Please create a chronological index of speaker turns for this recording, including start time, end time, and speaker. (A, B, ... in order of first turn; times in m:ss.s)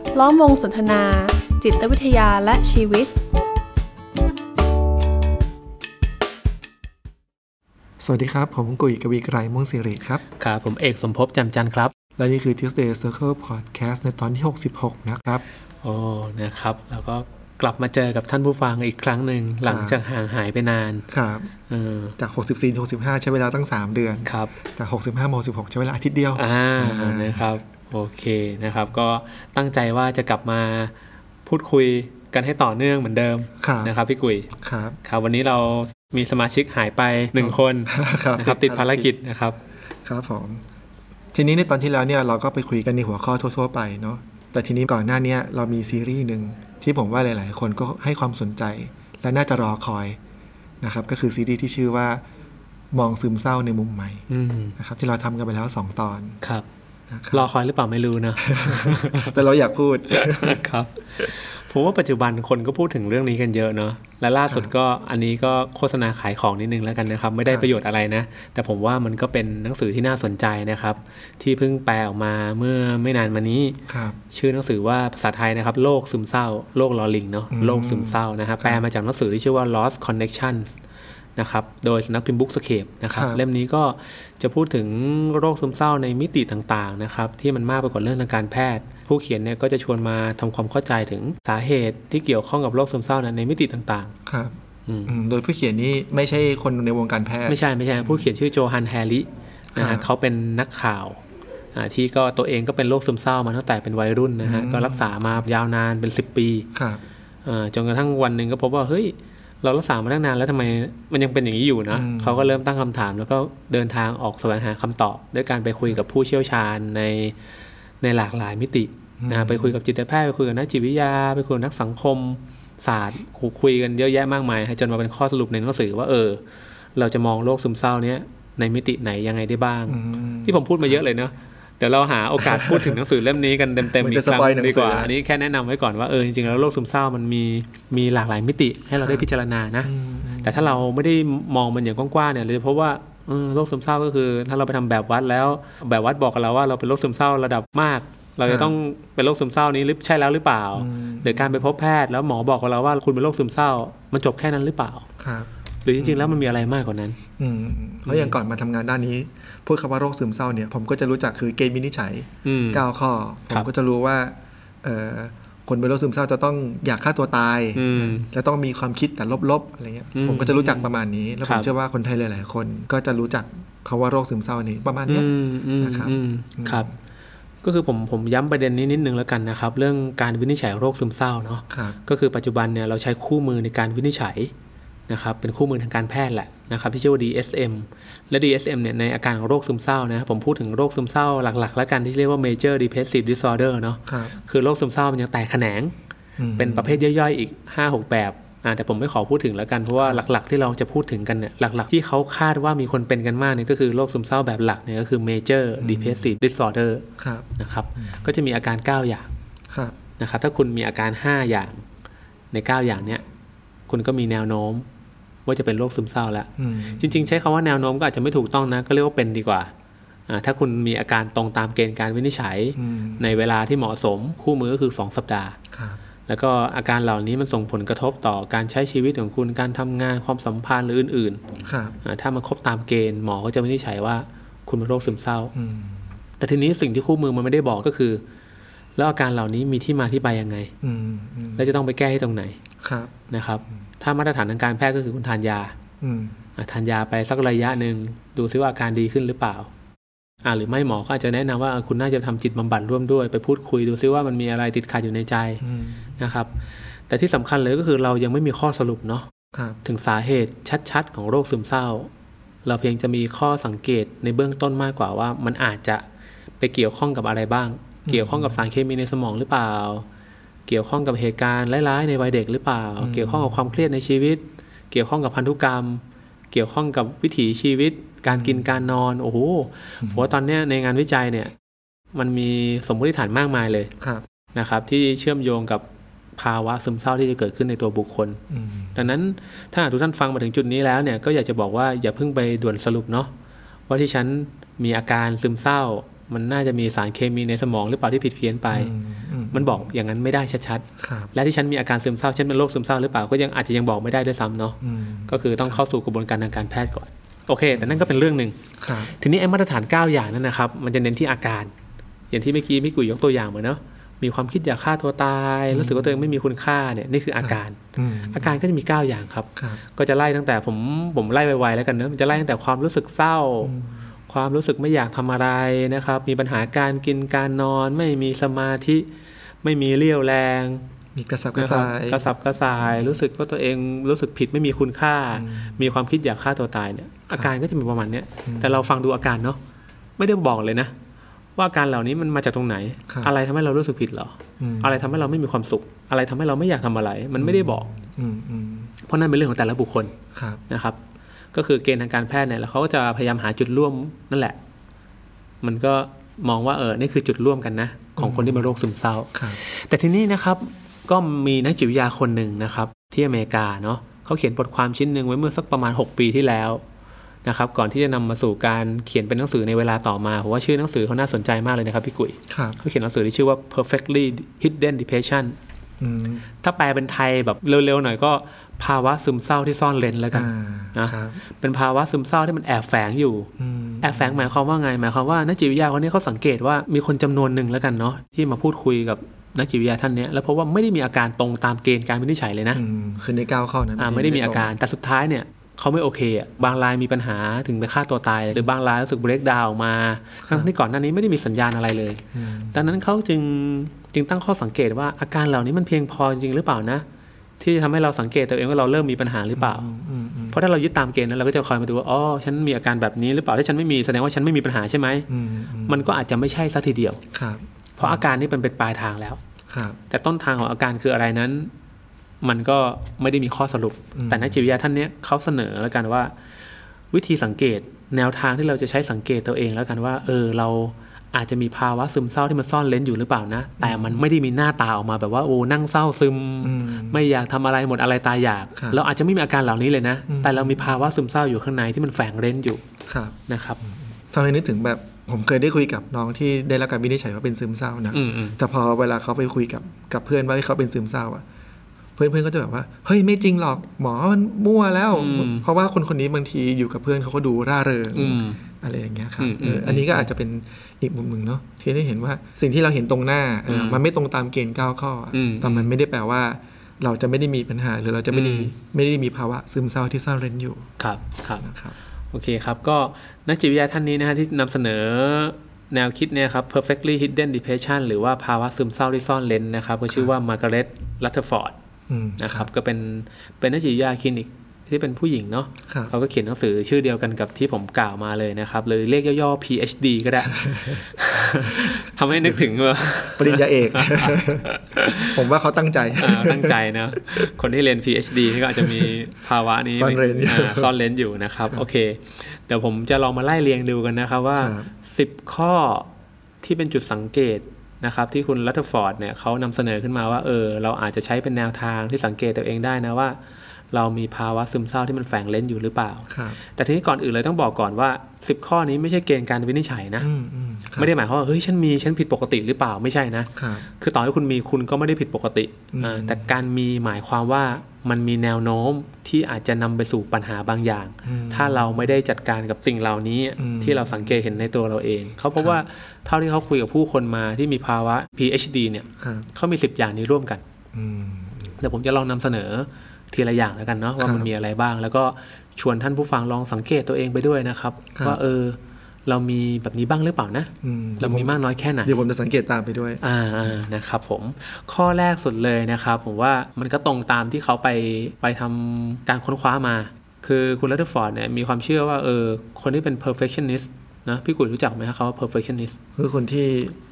0:00.1-0:03.2 A
0:08.0-0:10.2 B
0:10.4-0:11.9 C
0:12.2-0:15.4 B
0:15.8-0:21.0 C
0:19.6-0:20.0 B
0:21.1-0:21.5 B
0:21.7-0:22.2 C
0:22.2-0:27.4 B
0:24.2-0:24.5 C
0:26.3-0:30.9 C
0:31.4-0:34.5 C
0:33.6-0:33.9 B
0:34.6-0:35.0 B
0:35.0-0:39.6 C
0:37.4-0:39.1 B
0:40.0-0:40.6 B
0:41.3-0:50.2 B
0:50.8-0:52.2 B
0:52.9-0:54.2 B
0:54.3-0:54.8 C
0:54.8-0:56.4 B
0:57.1-0:57.5 B
0:57.3-0:59.4 C
0:58.4-1:00.6 B
1:00.1-1:13.8 C
1:13.9-1:14.2 B
1:14.3-1:20.8 C
1:17.5-1:18.8 B
1:21.4-1:34.1 C
1:23.1-1:23.4 B
1:34.3-1:34.6 B
1:34.9-1:35.1 C
1:35.1-1:38.3 B
1:37.5-1:41.2 C
1:39.8-1:40.1 B
1:41.8-1:46.7 C
1:44.4-1:45.1 B
1:46.7-1:47.0 B
1:47.4-1:57.4 C
1:51.9-1:52.5 B
1:58.0-2:06.4 C
1:59.2-1:59.8 B
2:07.0-2:19.9 C
2:09.9-2:11.0 B
2:12.4-2:13.0 B
2:13.9-2:15.1 B
2:19.0-2:19.2 B
2:19.8-2:20.8 B
2:20.4-2:35.1 C
2:28.4-2:28.8 B
2:30.8-2:31.7 B
2:35.2-2:36.4 B
2:35.8-2:37.2 C
2:37.4-2:56.9 B
2:38.1-2:38.3 C
2:42.4-2:42.8 C
2:47.8-2:48.3 C
2:50.2-2:50.9 C
2:51.4-2:51.7 C
2:55.1-2:56.9 C
2:57.6-3:04.5 C
3:01.7-3:02.0 B
3:05.1-3:15.9 C
3:14.1-3:14.4 B
3:16.4-3:17.0 B
3:16.6-3:27.1 C
3:20.0-3:20.2 B
3:25.8-3:26.3 B
3:27.2-3:28.3 B
3:27.6-3:29.3 C
3:29.7-3:30.0 B
3:30.2-3:31.8 C
3:32.5-3:33.2 C
3:33.9-3:34.9 C
3:35.5-3:39.7 C
3:36.6-3:37.3 B
3:40.3-3:45.6 C
3:42.8-3:43.2 B
3:45.7-3:46.0 B
3:46.3-3:51.4 C
3:51.6-3:52.0 B
3:52.0-3:55.5 C
3:55.6-3:56.0 B
3:56.4-3:58.2 C
3:59.0-4:00.7 C
4:00.8-4:01.7 B
4:01.6-4:02.6 C
4:02.8-4:03.1 B
4:03.3-4:05.8 C
4:06.0-4:06.4 B
4:06.6-4:09.7 C
4:10.4-4:15.6 C
4:15.6-4:16.0 B
4:16.2-4:16.5 C
4:17.1-4:19.3 C
4:19.5-4:19.8 B
4:19.8-4:22.1 C
4:22.6-4:26.0 C
4:26.6-4:30.0 C
4:28.0-4:28.6 B
4:30.7-4:41.5 C
4:33.0-4:33.7 B
4:38.3-4:38.6 B
4:42.1-4:43.9 C
4:44.5-4:45.8 C
4:46.4-4:48.4 C
4:48.5-4:49.0 B
4:48.9-4:53.3 C
4:53.9-4:58.9 C
4:58.7-4:59.8 B
4:59.5-5:11.7 C
5:01.0-5:01.3 B
5:04.8-5:05.8 B
5:07.8-5:08.0 B
5:08.8-5:09.1 B
5:12.3-5:23.7 C
5:15.7-5:16.3 B
5:17.4-5:18.6 B
5:23.6-5:24.0 B
5:24.3-5:29.1 C
5:29.6-5:30.8 C
5:31.1-5:32.2 B
5:31.5-5:39.6 C
5:35.3-5:35.8 B
5:38.4-5:38.8 B
5:40.2-5:40.9 C
5:41.6-5:47.9 C
5:44.6-5:45.1 B
5:47.4-5:48.9 B
5:49.0-5:50.1 C
5:50.3-5:50.6 B
5:50.7-5:51.0 C
5:51.5-5:54.6 C
5:55.6-6:06.8 C
5:58.2-5:58.6 B
5:59.3-5:59.6 B
6:07.4-6:15.6 C
6:12.5-6:12.8 B
6:16.0-6:16.4 B
6:16.6-6:23.5 C
6:20.3-6:21.4 B
6:23.6-6:24.5 B
6:24.0-6:32.8 C
6:32.7-6:34.7 B
6:34.0-6:47.0 C
6:42.3-6:42.8 B
6:47.6-6:49.8 C
6:49.5-6:50.6 B
6:50.5-6:55.3 C
6:55.3-6:56.1 B
6:55.9-6:57.2 C
6:57.3-6:58.2 B
6:58.0-6:59.4 C
6:59.7-7:00.0 B
7:00.1-7:01.7 C
7:02.4-7:06.3 C
7:04.1-7:04.6 B
7:07.1-7:22.8 C
7:13.8-7:14.2 B
7:16.6-7:17.2 B
7:20.3-7:20.9 B
7:23.1-7:23.4 B
7:23.5-7:23.8 C
7:23.9-7:31.4 B
7:28.1-7:28.6 C
7:32.2-7:50.9 B
7:35.1-7:35.6 C
7:38.1-7:38.6 C
7:39.4-7:40.3 C
7:43.7-7:44.0 C
7:45.3-7:45.9 C
7:48.3-7:48.7 C
7:51.0-7:51.6 C
7:51.6-7:51.9 B
7:52.3-8:01.8 C
8:02.1-8:02.7 B
8:02.4-8:15.4 C
8:10.5-8:11.0 B
8:11.7-8:12.6 B
8:13.3-8:16.8 B
8:16.2-8:26.1 C
8:18.7-8:19.1 B
8:19.9-8:20.9 B
8:24.6-8:24.9 B
8:26.6-8:33.4 C
8:33.9-8:40.3 C
8:36.3-8:36.6 B
8:40.2-8:41.1 B
8:41.0-9:00.6 C
8:43.6-8:43.9 B
8:45.9-8:46.5 B
8:51.2-8:52.1 B
8:53.6-8:54.3 B
8:59.2-8:59.5 B
9:00.9-9:01.8 B
9:01.8-9:12.2 C
9:04.2-9:04.5 B
9:10.8-9:13.2 B
9:13.2-9:26.0 C
9:26.2-9:27.0 B